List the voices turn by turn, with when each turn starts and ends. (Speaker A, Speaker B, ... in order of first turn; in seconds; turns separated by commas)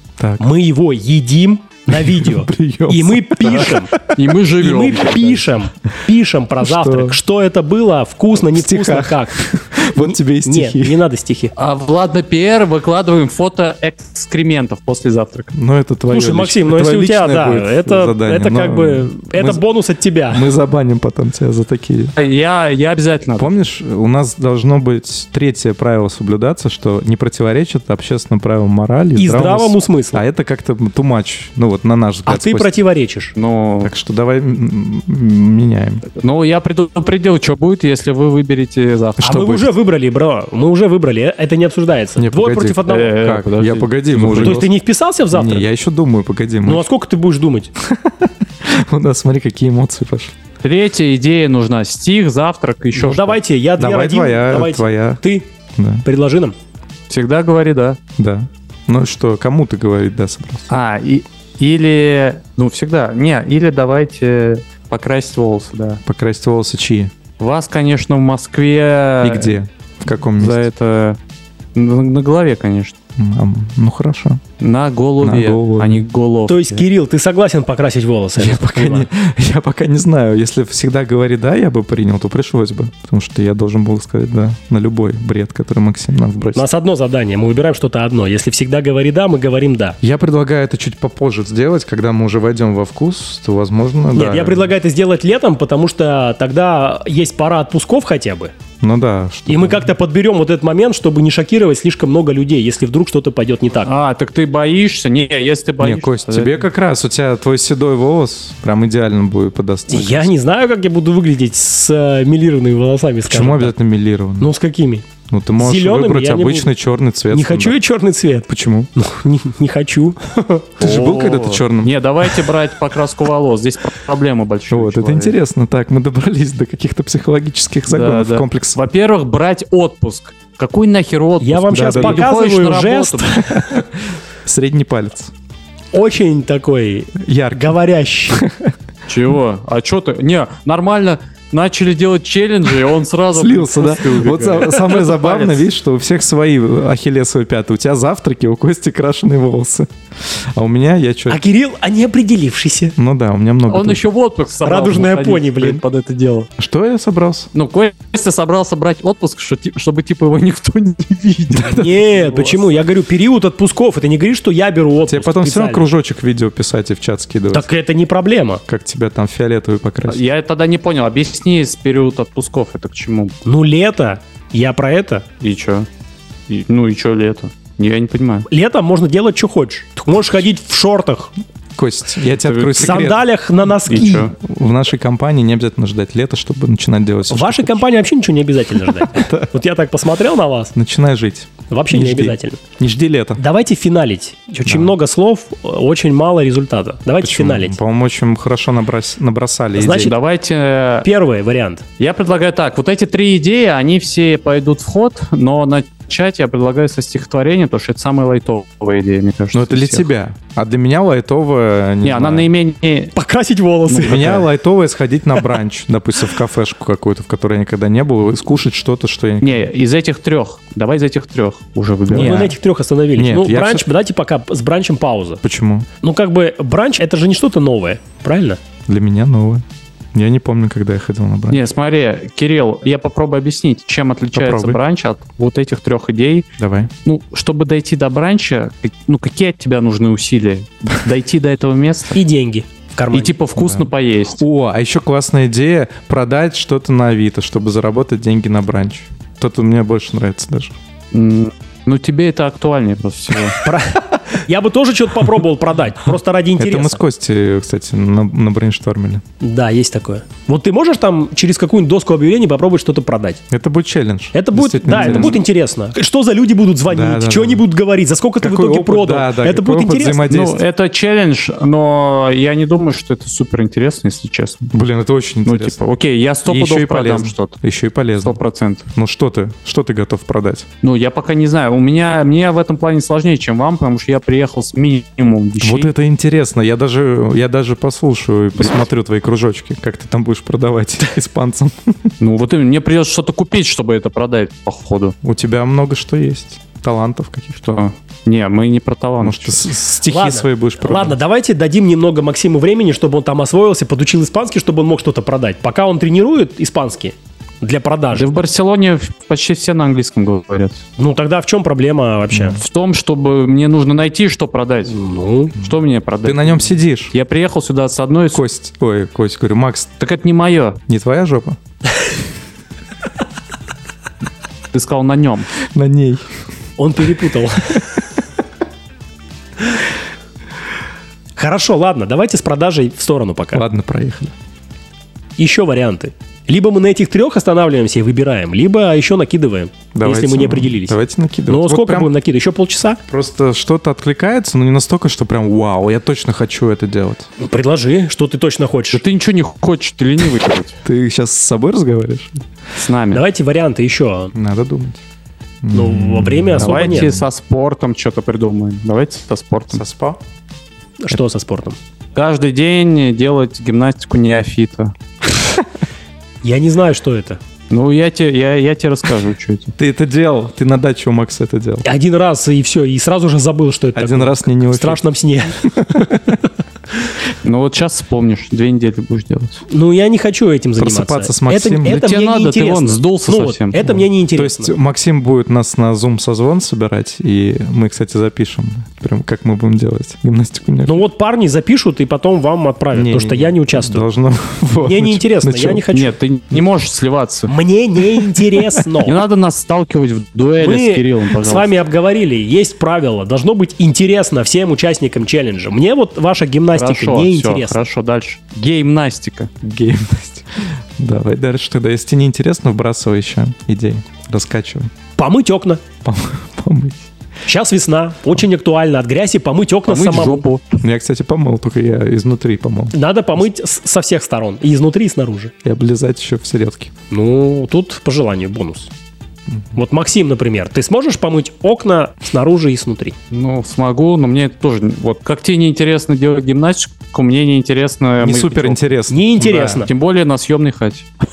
Speaker A: 0.2-0.5, Speaker B: 0.4-4.0, Speaker A: 1.9-4.3, Speaker C: 3.5-5.5, Speaker B: 4.6-9.4, Speaker A: 6.6-7.2, Speaker A: 8.5-11.0, Speaker B: 9.9-11.5, Speaker C: 11.6-15.5, Speaker A: 15.5-19.6, Speaker B: 16.1-20.5, Speaker A: 20.3-22.1, Speaker C: 22.2-23.5, Speaker A: 23.4-32.8, Speaker B: 29.2-30.2, Speaker B: 32.3-33.3, Speaker C: 33.4-33.9, Speaker A: 33.8-36.0, Speaker C: 36.1-39.5, Speaker A: 39.2-39.8, Speaker B: 39.2-43.2, Speaker A: 42.2-44.7, Speaker C: 42.9-44.7, Speaker B: 44.4-45.7, Speaker A: 45.3-46.9, Speaker B: 46.6-47.7, Speaker A: 47.8-50.4, Speaker C: 50.6-53.4, Speaker B: 53.0-55.5, Speaker A: 53.8-55.2, Speaker A: 55.8-56.0, Speaker B: 56.0-56.6, Speaker C: 57.1-58.0, Speaker A: 58.2-60.7, Speaker C: 60.7-66.0, Speaker A: 66.0-67.1, Speaker C: 67.4-69.6, Speaker A: 69.2-70.7, Speaker C: 70.4-71.2, Speaker C: 71.8-73.0, Speaker A: 73.2-74.4, Speaker C: 74.6-76.8, Speaker A: 75.2-76.0, Speaker B: 76.5-79.1, Speaker A: 78.4-86.7, Speaker B: 86.5-90.0, Speaker A: 90.0-94.7, Speaker B: 94.1-98.5, Speaker A: 98.8-99.9, Speaker B: 99.5-103.9, Speaker C: 103.8-106.6, Speaker A: 105.8-110.3, Speaker B: 109.9-113.8, Speaker A: 113.3-114.5, Speaker B: 114.4-115.0, Speaker A: 115.3-117.8, Speaker B: 115.6-116.7, Speaker B: 117.3-120.7, Speaker A: 118.5-118.9, Speaker A: 120.8-122.0, Speaker C: 120.8-125.4, Speaker A: 124.7-128.8, Speaker C: 127.9-133.4, Speaker B: 131.4-133.8, Speaker A: 131.7-132.3, Speaker A: 133.5-133.9, Speaker A: 134.4-135.3, Speaker B: 135.9-138.4, Speaker A: 137.2-138.8, Speaker C: 139.1-145.7, Speaker A: 143.3-151.4, Speaker B: 151.3-152.9, Speaker A: 153.0-154.1, Speaker C: 153.7-156.5, Speaker B: 154.6-155.8, Speaker A: 156.6-157.5, Speaker C: 157.5-162.8, Speaker A: 161.5-162.0, Speaker B: 161.7-165.9, Speaker A: 165.1-167.7, Speaker B: 167.5-168.6, Speaker A: 168.7-170.2, Speaker C: 170.1-173.4, Speaker B: 173.4-175.2, Speaker C: 175.4-175.9, Speaker C: 176.5-178.5, Speaker B: 178.5-181.3, Speaker A: 181.8-183.2, Speaker C: 182.3-183.2, Speaker B: 182.8-184.3, Speaker C: 183.9-184.3, Speaker A: 183.9-187.8, Speaker B: 187.3-190.7, Speaker A: 189.0-189.5, Speaker A: 190.7-193.4, Speaker B: 191.7-192.6, Speaker B: 193.4-197.8, Speaker A: 194.6-194.9, Speaker A: 197.2-200.1, Speaker B: 199.8-200.1, Speaker C: 199.9-201.1, Speaker B: 201.0-201.8, Speaker C: 202.0-210.1, Speaker A: 209.5-212.5, Speaker C: 212.0-213.1, Speaker B: 213.2-214.5, Speaker C: 213.9-214.4, Speaker A: 214.0-219.7, Speaker C: 219.4-222.5, Speaker A: 222.1-222.6, Speaker B: 222.1-225.4, Speaker A: 223.2-223.9, Speaker A: 225.4-225.9, Speaker B: 226.0-228.6, Speaker A: 228.9-231.6, Speaker C: 231.5-236.5, Speaker A: 234.3-234.8, Speaker A: 236.6-236.9, Speaker C: 237.1-242.2, Speaker B: 242.1-243.3, Speaker C: 243.1-244.4, Speaker A: 243.6-250.8, Speaker C: 251.1-253.6, Speaker B: 253.6-257.0, Speaker A: 256.6-259.2, Speaker B: 259.4-263.4, Speaker A: 263.5-265.4, Speaker B: 264.3-270.3, Speaker C: 264.9-265.4, Speaker A: 266.9-267.6, Speaker A: 268.4-270.6, Speaker C: 270.3-274.7, Speaker A: 274.7-275.8, Speaker C: 275.4-277.6, Speaker A: 276.4-278.4, Speaker C: 278.2-278.9, Speaker A: 278.9-280.7, Speaker C: 280.8-285.9, Speaker A: 285.6-292.1, Speaker C: 292.2-295.1, Speaker A: 295.2-297.6, Speaker C: 297.6-299.7, Speaker A: 299.2-301.2, Speaker B: 300.1-308.3, Speaker C: 308.1-310.8, Speaker B: 311.0-312.6, Speaker A: 312.3-312.6, Speaker C: 312.6-315.0, Speaker B: 314.9-315.6, Speaker C: 315.6-318.4, Speaker A: 315.6-317.1, Speaker A: 318.3-319.9, Speaker C: 320.0-320.8, Speaker A: 320.9-321.6, Speaker C: 324.7-325.5, Speaker A: 325.7-326.3, Speaker B: 326.8-327.9, Speaker B: 331.4-333.6, Speaker A: 333.5-334.3, Speaker B: 335.4-343.0, Speaker A: 339.9-342.1, Speaker A: 343.1-347.3, Speaker B: 347.4-349.0, Speaker C: 348.9-350.8, Speaker A: 350.8-352.5, Speaker C: 352.8-353.2, Speaker B: 353.1-354.3, Speaker A: 354.3-355.0, Speaker A: 355.6-357.2, Speaker B: 355.7-357.2, Speaker C: 356.6-359.8, Speaker A: 359.7-360.2, Speaker B: 361.0-361.8, Speaker C: 362.1-364.9, Speaker B: 366.4-367.4, Speaker C: 367.7-369.7, Speaker A: 369.8-371.9, Speaker B: 371.8-376.3, Speaker A: 373.9-375.0, Speaker A: 375.6-376.4, Speaker C: 377.4-379.6, Speaker B: 379.7-384.7, Speaker A: 380.8-382.1, Speaker C: 381.9-383.9, Speaker A: 383.8-391.1, Speaker B: 390.9-394.1, Speaker A: 392.9-395.9, Speaker B: 394.8-396.1, Speaker C: 395.9-397.5, Speaker B: 397.5-399.2, Speaker C: 399.0-401.8, Speaker B: 400.6-407.8, Speaker C: 406.7-409.5, Speaker A: 409.6-414.9, Speaker B: 415.2-415.8, Speaker A: 416.0-417.0, Speaker B: 417.5-420.5, Speaker C: 419.9-420.8, Speaker A: 420.8-422.9, Speaker B: 422.9-425.5, Speaker A: 425.6-426.9, Speaker B: 427.1-428.9, Speaker A: 429.5-429.8, Speaker B: 429.8-433.2, Speaker C: 433.3-438.8, Speaker A: 438.2-439.9, Speaker B: 439.1-439.9, Speaker C: 439.4-441.1